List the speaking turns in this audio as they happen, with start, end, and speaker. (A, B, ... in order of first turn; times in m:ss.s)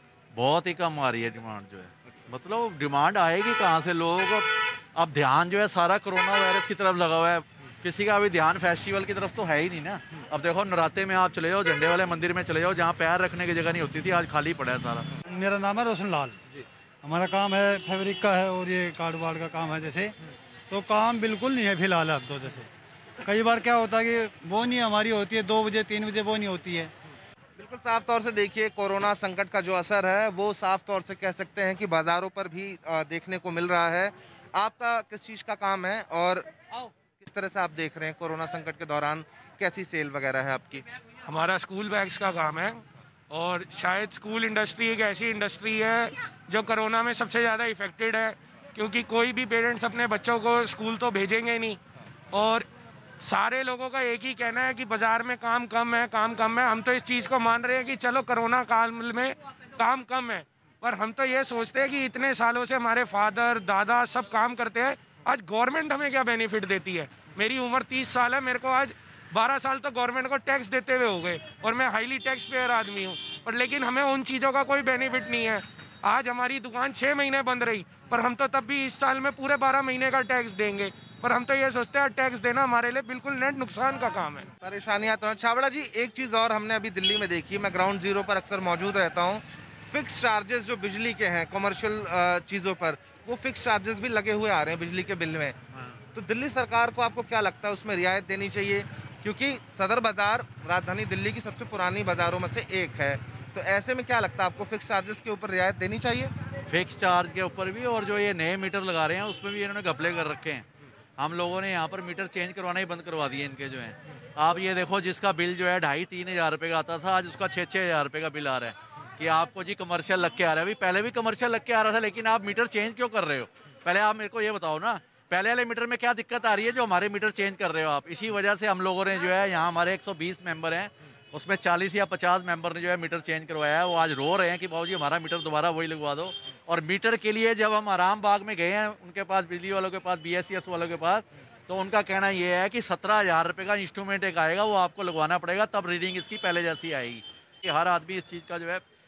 0:00.4-0:15.1 A
0:15.3-0:20.1 B
0:20.7-0:22.7 B
0:23.2-0:26.9 B
0:27.6-0:40.8 C
0:41.3-0:51.8 D
0:52.3-0:52.7 D
0:53.2-1:24.5 D
1:24.6-1:35.6 C
1:36.1-1:46.3 C
1:46.7-1:50.7 A
1:51.2-2:28.8 A